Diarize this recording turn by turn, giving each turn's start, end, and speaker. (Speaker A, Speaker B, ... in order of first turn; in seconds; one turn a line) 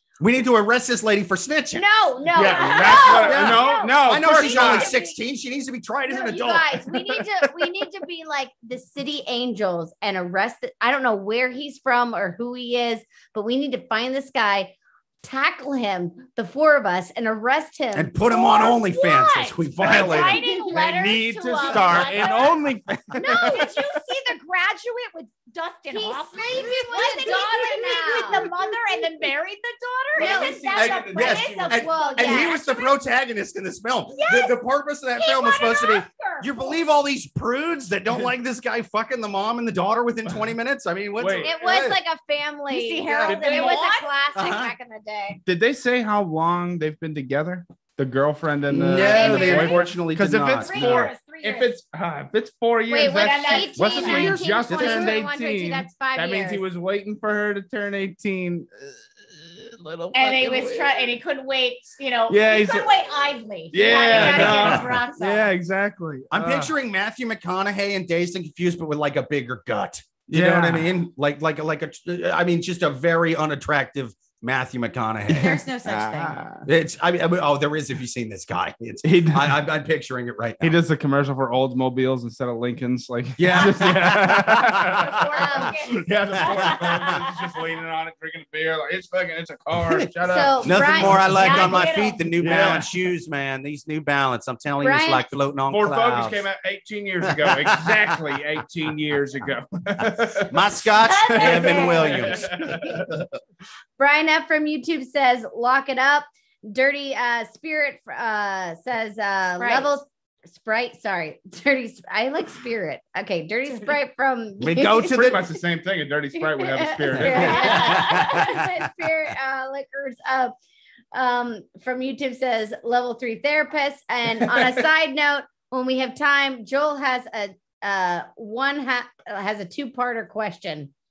Speaker A: 0.2-1.8
Speaker B: 1.7-5.2
Speaker C: 2.3-4.9
Speaker D: 2.3-3.9
Speaker A: 3.1-6.8
Speaker B: 6.1-18.2
Speaker C: 7.1-7.5
Speaker A: 17.9-20.4
Speaker D: 18.2-22.6
Speaker C: 19.8-23.7
Speaker B: 20.4-20.8
Speaker B: 21.9-22.3
Speaker B: 23.2-23.7
Speaker D: 23.2-32.9
Speaker B: 25.9-29.3
Speaker B: 30.1-30.8
Speaker C: 30.1-31.8
Speaker A: 30.8-42.0
Speaker B: 31.7-32.6
Speaker D: 34.1-34.6
Speaker D: 35.2-36.8
Speaker C: 41.2-41.7
Speaker B: 41.4-45.4
Speaker D: 42.7-44.1
Speaker C: 43.3-43.8
Speaker A: 44.3-44.7
Speaker C: 45.5-61.1
Speaker A: 48.7-51.0
Speaker B: 48.9-49.8
Speaker D: 48.9-49.9
Speaker D: 50.6-51.7
Speaker B: 52.9-56.6
Speaker D: 53.0-54.4
Speaker A: 54.0-55.2
Speaker D: 60.1-65.5
Speaker C: 62.3-62.9
Speaker C: 63.7-66.7
Speaker A: 64.1-64.9
Speaker A: 66.3-75.6
Speaker C: 70.3-71.0
Speaker D: 75.3-76.4
Speaker C: 75.3-76.6
Speaker A: 76.6-80.8
Speaker C: 79.0-79.6
Speaker C: 80.6-91.8
Speaker A: 83.4-85.0
Speaker D: 85.0-87.3
Speaker B: 85.4-85.7
Speaker A: 86.4-87.1
Speaker B: 90.3-91.8
Speaker A: 90.6-96.4
Speaker D: 91.2-92.3
Speaker C: 92.4-92.9
Speaker B: 94.8-95.3
Speaker C: 95.7-100.6
Speaker A: 97.4-98.1
Speaker A: 100.5-102.8
Speaker D: 101.0-102.3
Speaker C: 101.3-103.2
Speaker B: 104.0-115.3
Speaker D: 109.6-109.9
Speaker A: 114.6-115.4
Speaker C: 115.0-118.0
Speaker B: 116.4-120.5
Speaker A: 117.1-118.8
Speaker D: 117.2-118.2
Speaker B: 121.1-130.9
Speaker C: 124.4-124.9